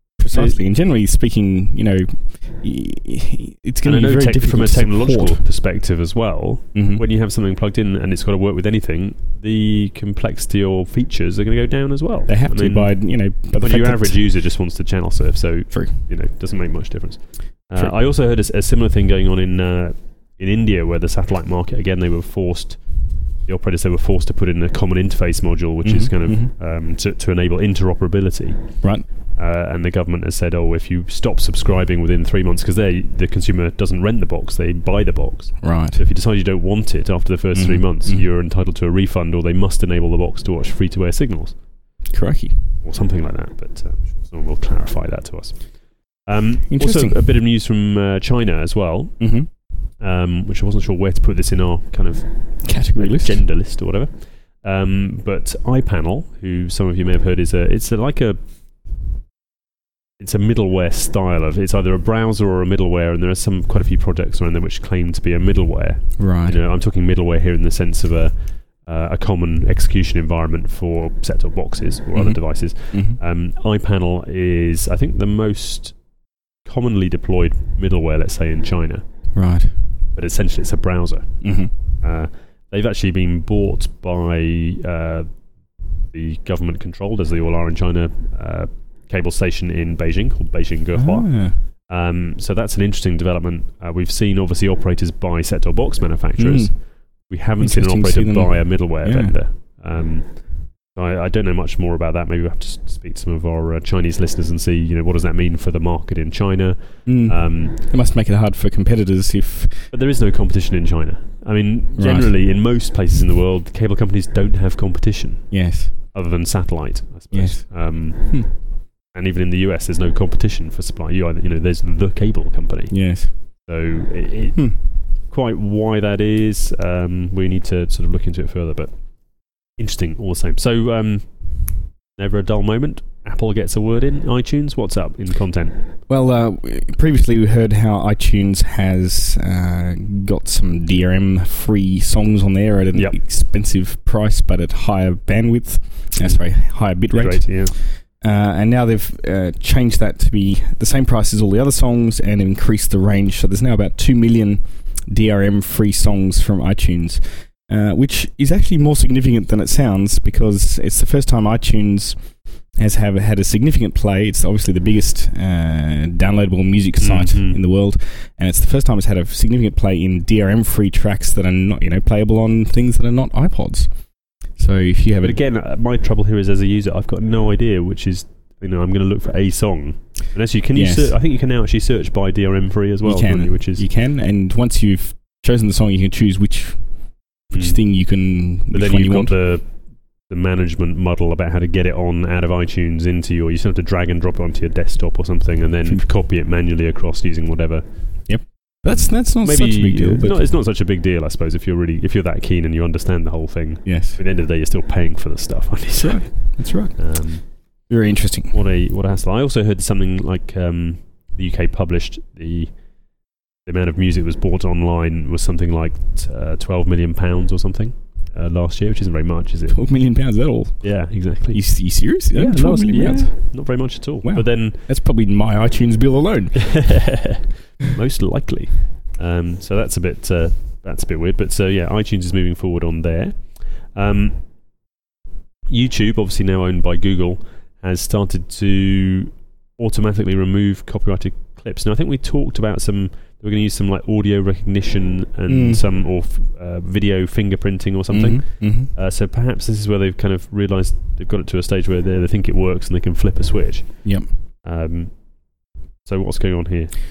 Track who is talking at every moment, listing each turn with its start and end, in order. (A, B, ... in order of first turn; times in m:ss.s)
0:00.2-0:05.4 A
0:00.3-0:00.6 B
0:03.8-0:28.6 B
0:06.7-0:07.0 A
0:12.3-0:14.2 A
0:15.7-0:16.0 A
0:25.8-0:26.5 A
0:29.4-0:41.6 B
0:35.6-0:36.0 A
0:37.5-0:38.2 A
0:42.1-0:42.6 A
0:42.8-0:49.2 B
0:46.7-0:47.2 A
0:49.2-0:49.5 A
0:50.0-0:58.4 B
0:52.6-0:53.4 A
1:00.2-1:16.0 B
1:06.2-1:06.6 A
1:12.1-1:13.2 A
1:16.6-1:19.0 B
1:19.3-1:19.8 A
1:20.2-1:25.3 B
1:21.4-1:21.7 A
1:26.1-1:47.8 B
1:31.0-1:31.6 A
1:36.4-1:39.4 A
1:47.0-1:49.9 A
1:49.9-2:08.9 B
1:52.0-1:52.3 A
1:55.5-1:56.0 A
1:57.3-1:58.5 A
2:02.9-2:03.4 A
2:09.8-2:15.8 B
2:16.1-2:53.9 A
2:26.2-2:26.4 B
2:27.1-2:27.8 B
2:47.0-2:47.6 B
2:54.6-2:55.4 A
2:55.2-3:03.9 B
3:00.7-3:01.2 A
3:03.0-3:06.8 A
3:07.5-3:09.4 A
3:07.5-3:07.8 B
3:08.7-3:09.7 B
3:10.3-3:18.3 B
3:18.3-3:20.5 A
3:18.9-3:27.5 B
3:23.8-3:24.2 A
3:26.0-3:27.1 A
3:27.9-3:28.6 A
3:28.5-3:32.7 B
3:33.7-3:39.8 B
3:39.7-3:47.2 A
3:40.8-3:44.8 B
3:46.7-3:54.4 B
3:55.7-4:14.1 B
4:05.5-4:05.8 A
4:08.1-4:08.9 A
4:14.6-4:15.1 B
4:16.0-4:16.9 B